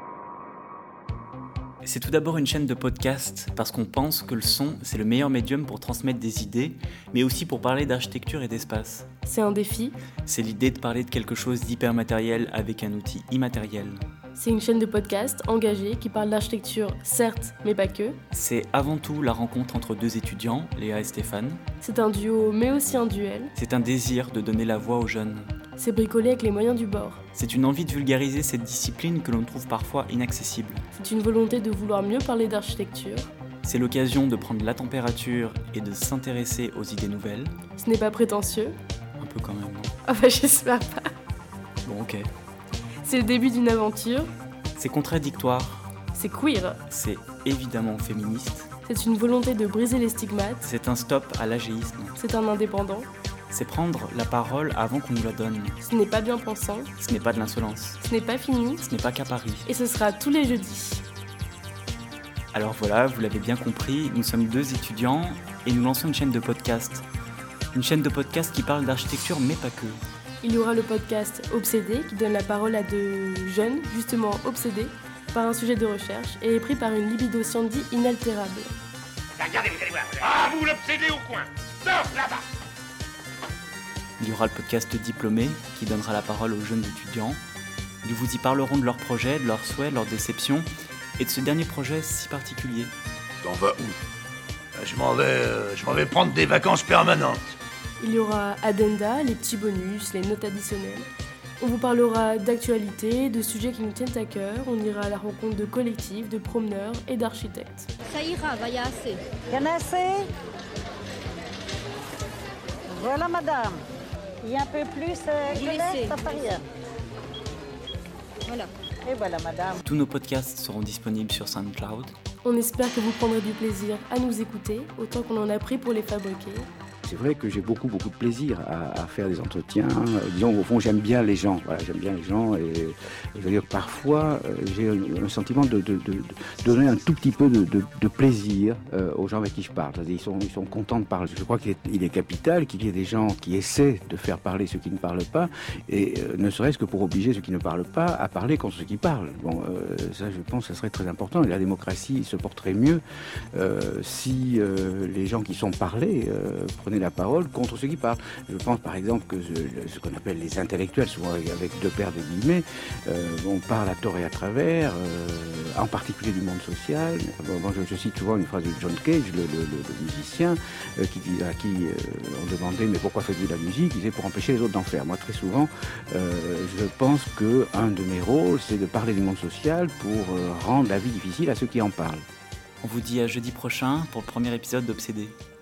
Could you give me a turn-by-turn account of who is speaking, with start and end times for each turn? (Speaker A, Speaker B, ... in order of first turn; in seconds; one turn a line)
Speaker A: 1.8-9.1
Speaker B: 9.3-10.0
Speaker A: 10.3-14.0
Speaker B: 14.3-18.2
Speaker A: 18.3-21.6
Speaker B: 21.8-23.5
Speaker A: 23.6-25.5
Speaker B: 25.8-27.2
Speaker A: 27.4-30.9
Speaker B: 30.9-33.3
Speaker A: 33.6-37.5
Speaker B: 37.8-38.8
Speaker A: 39.2-39.9
Speaker B: 40.1-41.1
Speaker A: 41.8-42.3
Speaker B: 43.0-44.3
Speaker A: 44.8-45.9
Speaker B: 46.1-46.8
Speaker A: 46.9-48.7
Speaker B: 48.9-50.7
Speaker A: 50.6-52.2
Speaker B: 52.2-53.1
Speaker A: 53.5-55.8
Speaker B: 55.8-56.9
Speaker A: 57.0-58.0
Speaker B: 58.0-58.8
Speaker A: 58.8-59.7
Speaker B: 59.7-61.0
Speaker A: 62.5-67.1
Speaker A: 67.7-70.0
Speaker B: 70.4-78.7
Speaker C: 79.4-81.5
Speaker C: 82.0-82.3
Speaker A: 84.2-87.4
Speaker A: 88.0-92.9
Speaker C: 93.4-94.0
Speaker C: 94.8-97.4
Speaker B: 98.0-101.1
Speaker B: 101.6-107.9
Speaker D: 108.0-109.3
Speaker E: 109.4-110.3
Speaker E: 112.9-113.8
Speaker E: 114.4-116.6
Speaker D: 115.5-116.3
Speaker D: 118.5-118.7
Speaker E: 119.0-119.8
Speaker A: 119.8-122.1
Speaker B: 122.4-126.7
Speaker F: 127.0-153.0
Speaker F: 153.5-182.2
Speaker A: 182.8-185.4